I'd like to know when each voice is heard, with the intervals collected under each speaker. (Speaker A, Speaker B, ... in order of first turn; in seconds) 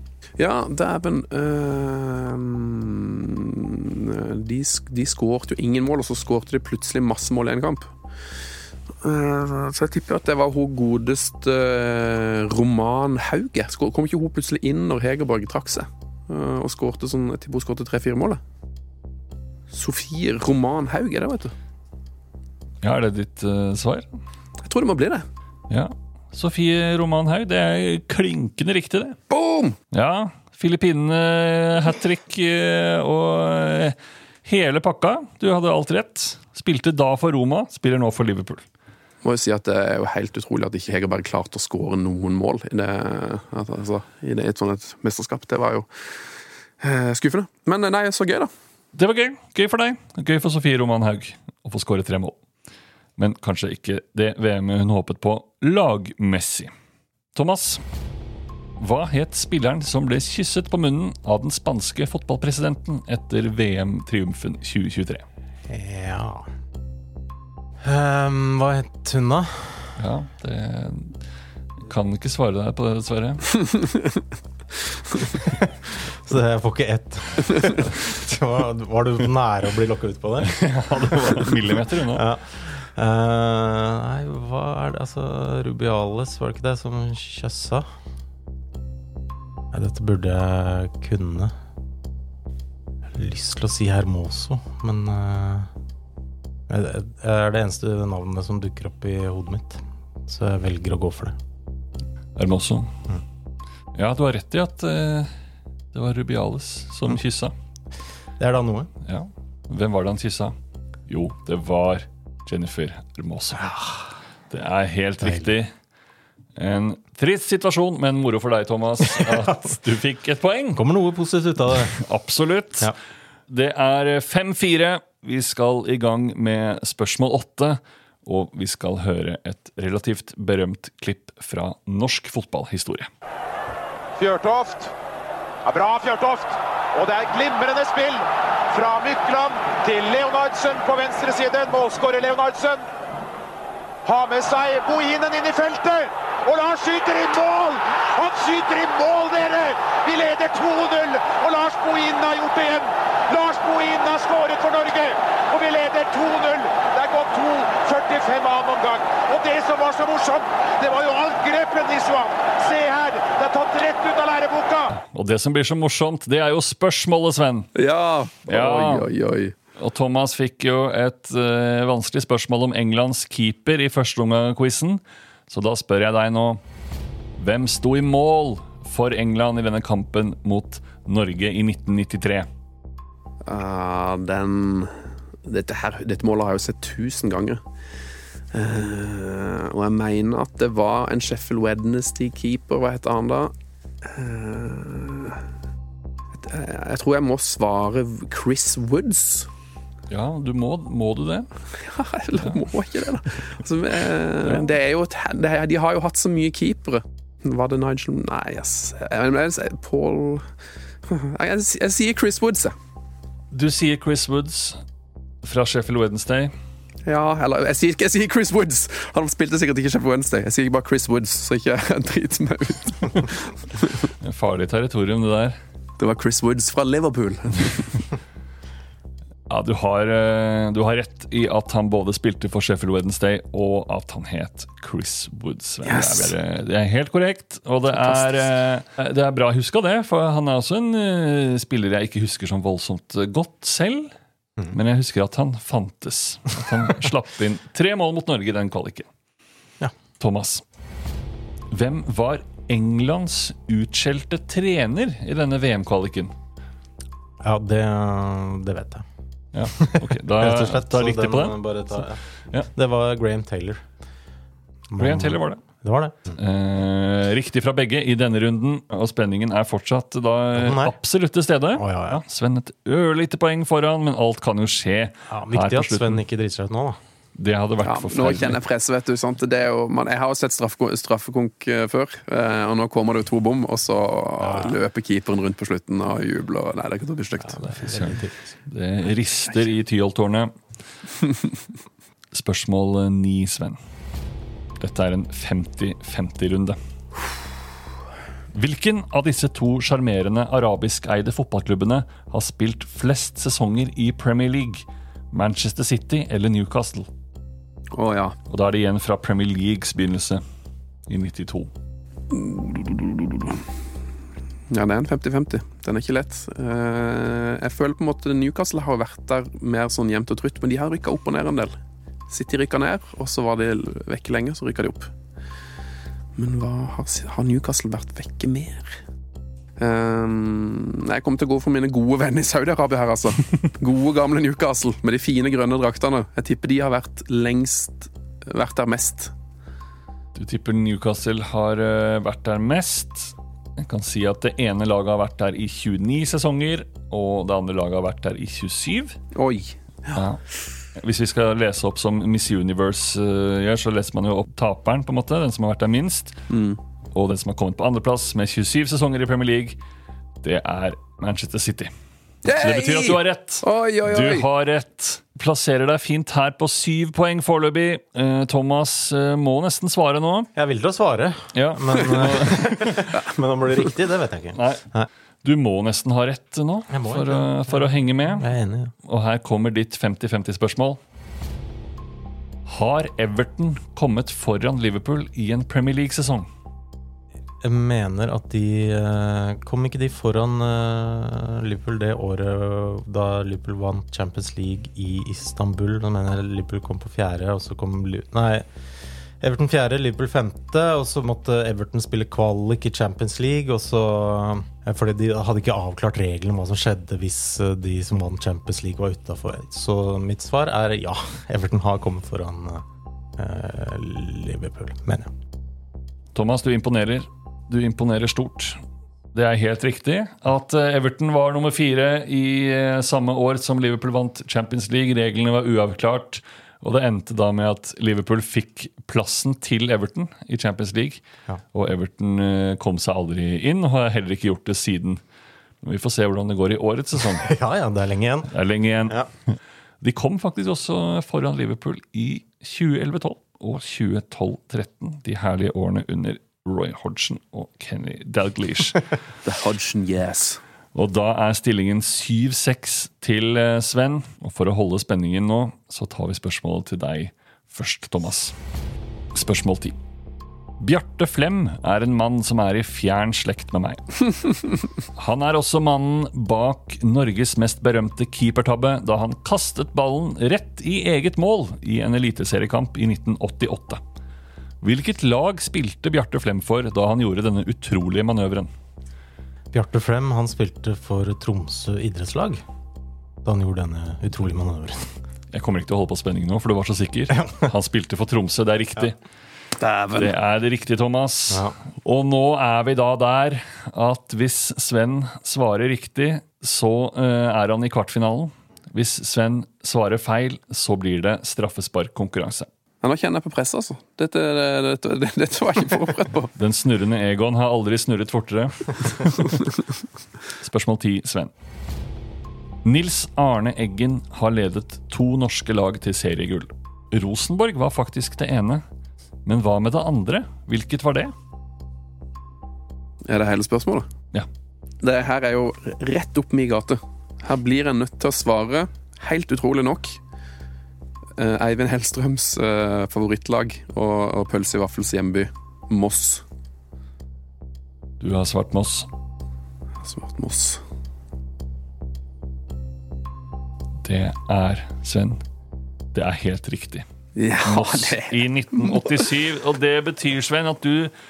Speaker A: 0.4-7.9, 9.0-18.4, 19.7-21.5, 24.6-25.2, 29.3-29.8, 39.2-45.9, 46.8-48.5, 73.7-74.2, 167.8-169.5, 183.4-184.9, 185.4-187.6, 188.5-195.4, 196.4-199.5, 201.8-210.4, 211.1-212.7, 217.0-224.1, 226.0-227.9, 235.8-236.3, 237.9-238.4, 277.8-287.7, 307.9-308.4, 312.3-313.6, 314.7-321.8, 322.3-325.1, 326.4-329.0, 329.8-339.3, 349.3-350.1, 356.5-356.8, 362.4-364.5, 449.4-450.6, 489.8-490.3, 503.0-506.5, 523.3-524.1, 525.0-530.2, 531.4-536.4, 540.0-540.8, 547.4-549.2
Speaker B: 22.8-24.2, 25.7-29.2, 29.9-38.6, 48.9-52.4, 53.2-56.7, 57.3-57.8, 58.8-65.2, 70.0-71.2, 71.8-73.5, 80.4-82.2, 102.3-102.9, 103.9-105.3, 105.9-107.5, 109.0-110.5, 111.1-113.8, 114.5-115.7, 116.5-120.8, 121.9-122.9, 123.5-133.1, 164.9-167.7, 168.5-169.1, 169.8-176.6, 177.4-182.5, 200.1-201.5, 213.5-214.8, 215.4-216.5, 224.2-225.6, 229.5-244.1, 244.7-249.1, 250.2-250.6, 251.7-256.3, 259.5-262.7, 265.0-265.6, 266.3-276.2, 277.4-278.6, 287.8-290.5, 292.3-293.8, 294.8-296.8, 298.5-307.1, 308.5-310.4, 311.1-311.7, 340.3-349.2, 350.1-350.4, 350.9-356.4, 357.1-359.8, 360.4-361.9, 362.5-370.5, 371.5-373.1, 374.5-374.8, 375.4-378.5, 379.0-381.0, 382.7-386.5, 416.3-418.8, 419.3-431.2, 431.7-435.2, 435.8-437.5, 438.5-449.1, 450.9-458.6, 459.3-459.9, 460.8-464.2, 465.1-474.0, 474.8-478.7, 485.5-489.1, 490.1-502.7, 506.6-509.6, 510.6-511.5, 512.8-518.8, 519.4-521.3, 538.2-539.1, 544.0-545.4, 546.1-547.0, 547.6-551.1
Speaker C: 65.7-66.5, 67.8-70.0, 75.4-80.6, 81.1-87.8, 89.7-91.5, 93.1-95.7, 96.7-101.3, 108.4-108.9, 113.5-114.1, 115.2-115.5, 119.1-119.6, 120.7-121.9, 257.4-259.0, 259.7-263.9, 264.9-266.4, 270.6-270.9, 271.7-272.2, 275.3-277.0, 284.4-284.8, 287.4-288.5, 370.5-375.1, 376.9-378.9, 387.6-398.7, 399.4-412.8, 413.4-415.3, 437.3-438.5, 479.7-482.6, 483.4-485.1
Speaker D: 134.2-134.9, 135.6-142.8, 144.0-164.9